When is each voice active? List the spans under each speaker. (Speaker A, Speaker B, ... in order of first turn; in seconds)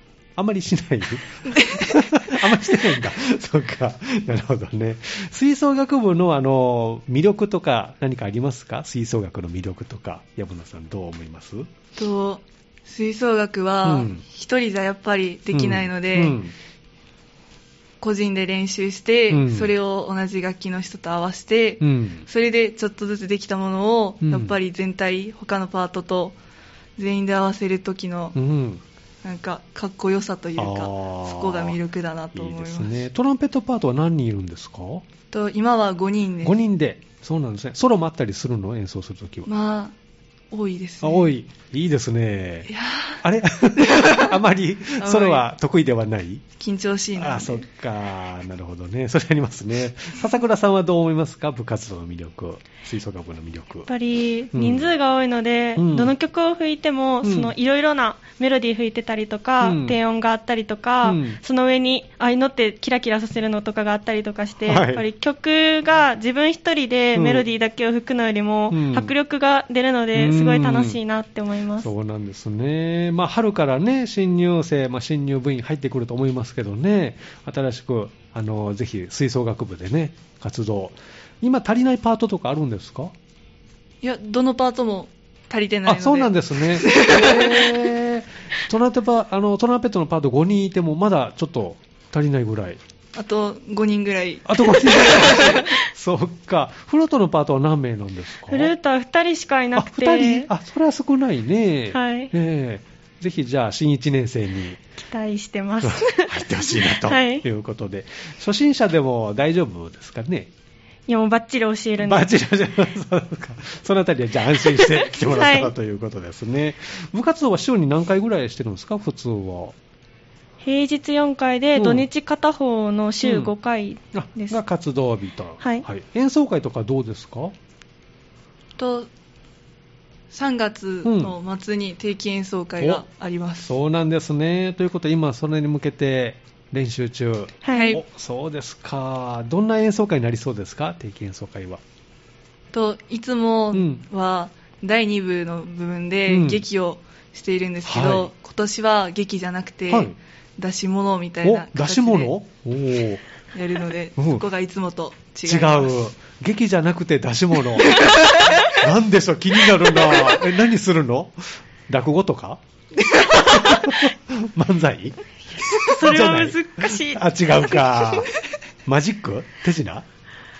Speaker A: 0.3-11.7, 13.8-14.2, 15.5-16.5, 19.3-19.7, 21.8-22.2, 24.2-24.5, 28.3-28.8, 30.6-31.8, 32.3-35.0, 36.4-39.5, 41.0-42.7, 43.2-46.4, 47.1-53.9, 54.5-54.9, 55.8-56.1, 57.2-57.5, 59.6-60.0, 61.0-61.4, 64.6-65.0, 67.1-67.5, 68.7-69.1, 70.1-71.0, 71.8-83.1, 85.8-92.8, 94.5-98.7, 99.8-104.8, 105.8-110.5, 112.0-119.7, 121.8-122.1, 123.2-123.5, 124.1-127.5, 131.0-131.3, 133.6-141.8, 143.7-144.0, 146.3-146.6, 147.8-148.3, 149.9-150.2, 151.4-153.2, 154.2-154.4, 155.4-162.6, 163.4-168.3, 168.8-170.0
Speaker B: 1.5-2.5, 11.9-16.4, 18.0-26.4, 27.0-28.4, 29.2-33.0, 35.3-36.6, 39.5-39.9, 40.5-41.3, 42.7-43.2, 43.8-44.3, 45.0-45.4, 46.6-47.6, 84.0-87.9, 93.1-95.6, 128.8-129.1, 130.3-133.7, 137.7-138.0, 142.7-152.3, 153.5-155.9, 157.9-158.8, 159.7-160.4, 162.9-164.0
Speaker C: 53.9-71.9, 98.5-100.5, 101.9-102.3, 105.0-107.4, 111.1-112.2, 115.2-115.7, 120.6-124.6, 125.6-125.8, 137.6-138.0, 165.8-167.9